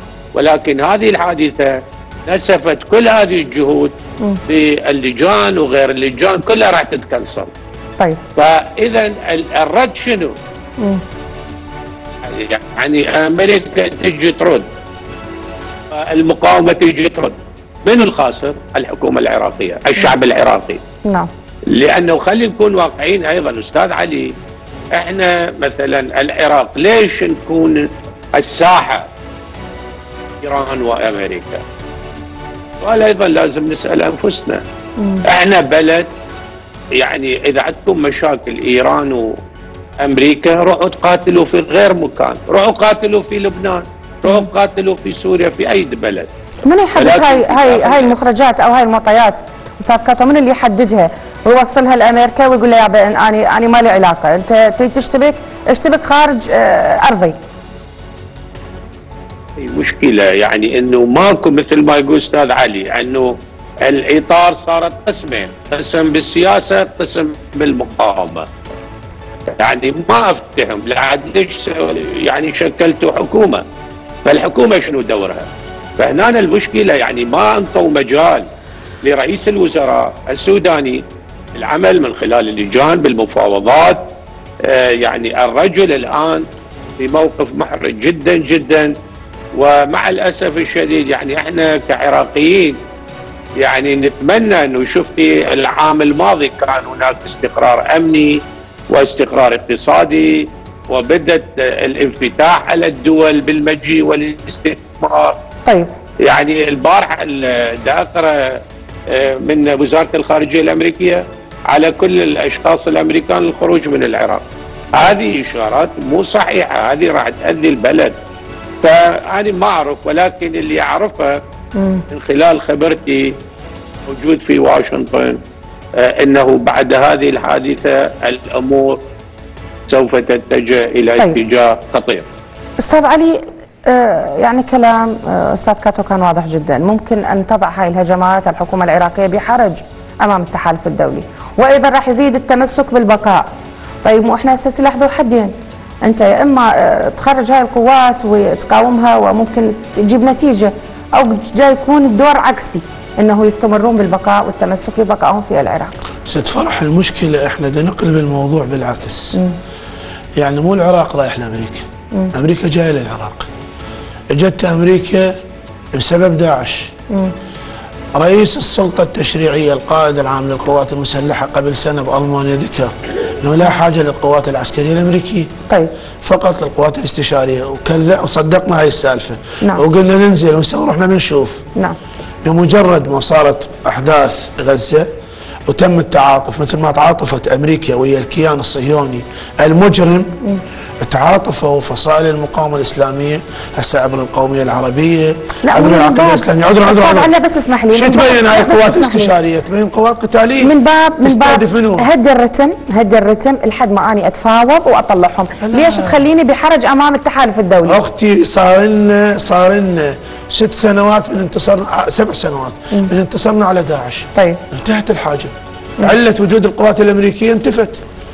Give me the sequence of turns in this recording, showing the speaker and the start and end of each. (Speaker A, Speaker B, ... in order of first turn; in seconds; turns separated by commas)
Speaker A: 0.3-3.9, Speaker A: 4.5-7.5, Speaker A: 8.4-10.3, Speaker A: 12.2-14.7, Speaker A: 15.9-20.8, Speaker B: 21.0-21.3, Speaker A: 21.7-24.3, Speaker A: 24.9-29.1, Speaker A: 30.4-31.6, Speaker A: 32.8-34.6, Speaker B: 35.0-35.2, Speaker A: 35.2-36.1, Speaker A: 37.0-39.3, Speaker A: 40.0-46.3, Speaker B: 46.6-57.4, Speaker A: 47.0-48.1, Speaker A: 59.6-68.5, Speaker A: 69.6-73.6, Speaker A: 74.2-78.4, Speaker A: 79.0-81.0, Speaker A: 81.5-84.0, Speaker A: 84.6-86.4, Speaker A: 87.0-88.9, Speaker A: 89.5-92.8, Speaker A: 93.6-105.3, Speaker A: 106.2-114.4, Speaker A: 115.0-118.2, Speaker A: 118.8-121.4, Speaker B: 121.8-122.0, Speaker A: 122.1-123.3, Speaker A: 124.0-125.4, Speaker A: 126.0-129.0, Speaker A: 129.9-132.2, Speaker B: 132.8-143.5, Speaker B: 144.0-145.5, Speaker B: 146.0-156.0, Speaker C: 156.2-159.4, Speaker C: 160.4-163.5, Speaker C: 164.3-165.4, Speaker C: 165.9-166.9, Speaker C: 168.1-175.5, Speaker C: 176.2-181.7, Speaker C: 182.4-185.1, Speaker C: 185.7-190.3, Speaker C: 191.0-197.3, Speaker B: 195.7-199.3, Speaker C: 197.9-202.1, Speaker B: 200.6-208.0, Speaker C: 205.6-206.3, Speaker C: 207.8-218.0